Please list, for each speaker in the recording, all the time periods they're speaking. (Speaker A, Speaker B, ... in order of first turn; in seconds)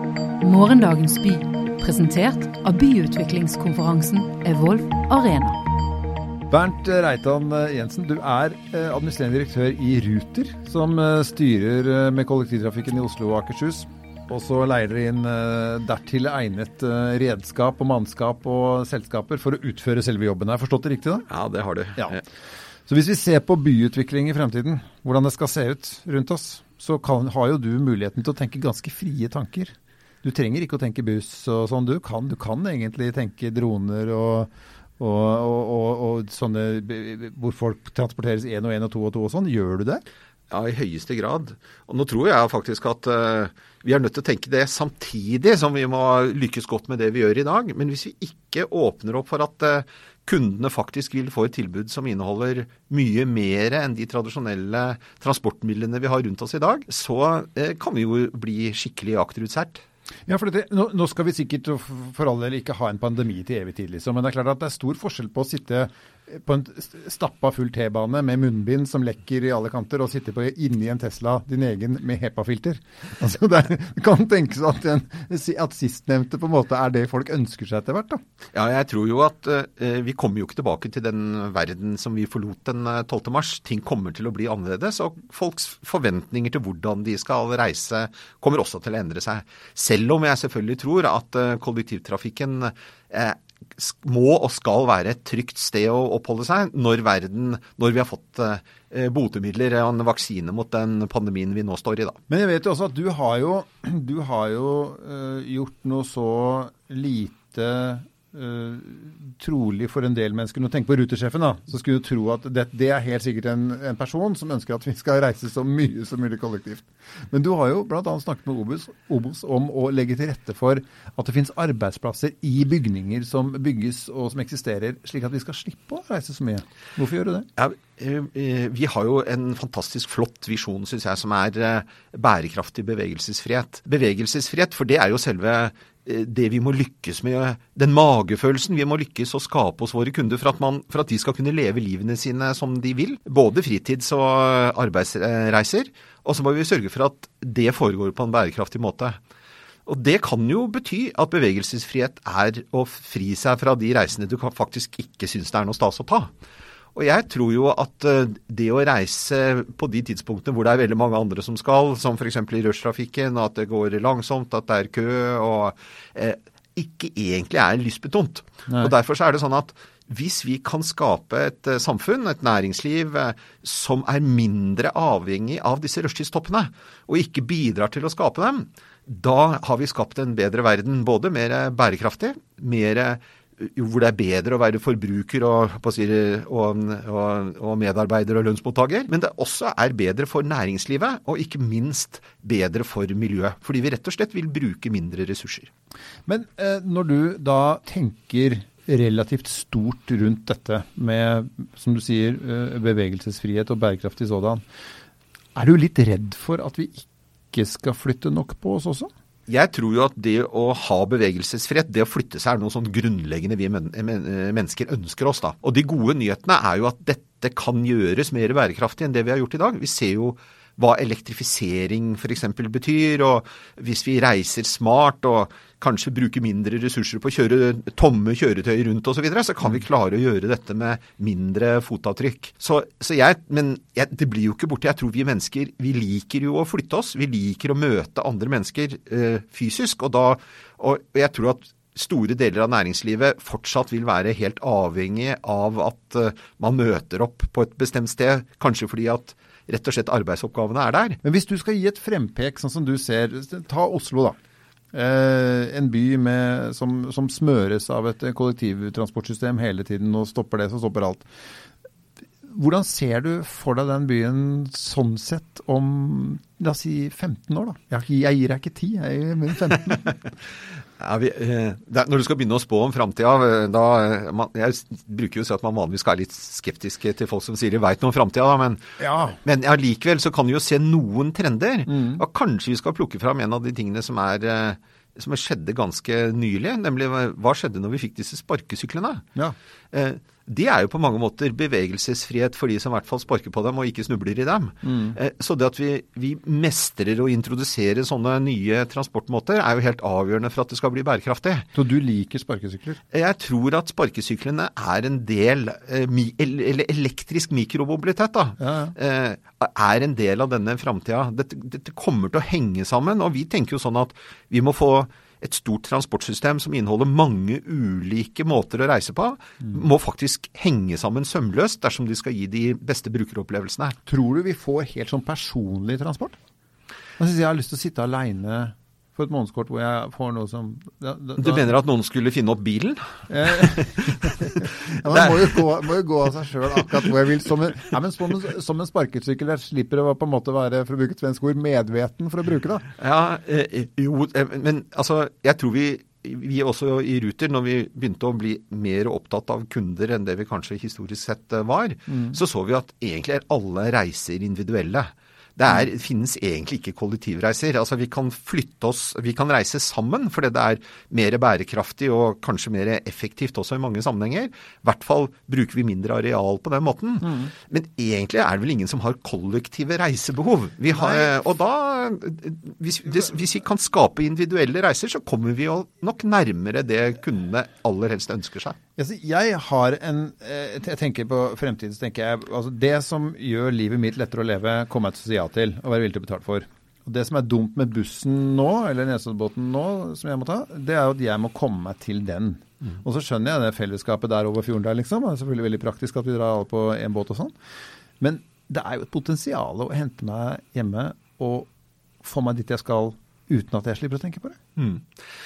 Speaker A: 0.4-5.6
Speaker B: 6.5-21.3, 22.9-40.0, 60.3-78.2, 102.3-127.5, 196.3-204.6, 205.5-209.1, 251.2-254.4, 254.9-261.3, 262.5-270.2, 279.0-279.4, 281.9-282.2, 294.8-295.1, 301.7-303.0, 308.6-308.9, 324.1-326.4, 327.2-331.7, 333.3-342.9, 352.1-352.4, 370.9-371.3, 379.0-397.6, 398.2-401.7, 402.2-404.6
Speaker C: 21.3-22.2, 40.5-59.8, 78.5-102.2, 127.5-149.2, 149.8-156.3, 156.9-195.7, 209.5-251.2, 271.0-278.8, 279.4-289.2, 289.9-301.7, 303.1-324.0, 331.4-335.7, 343.0-378.8, 404.8-405.1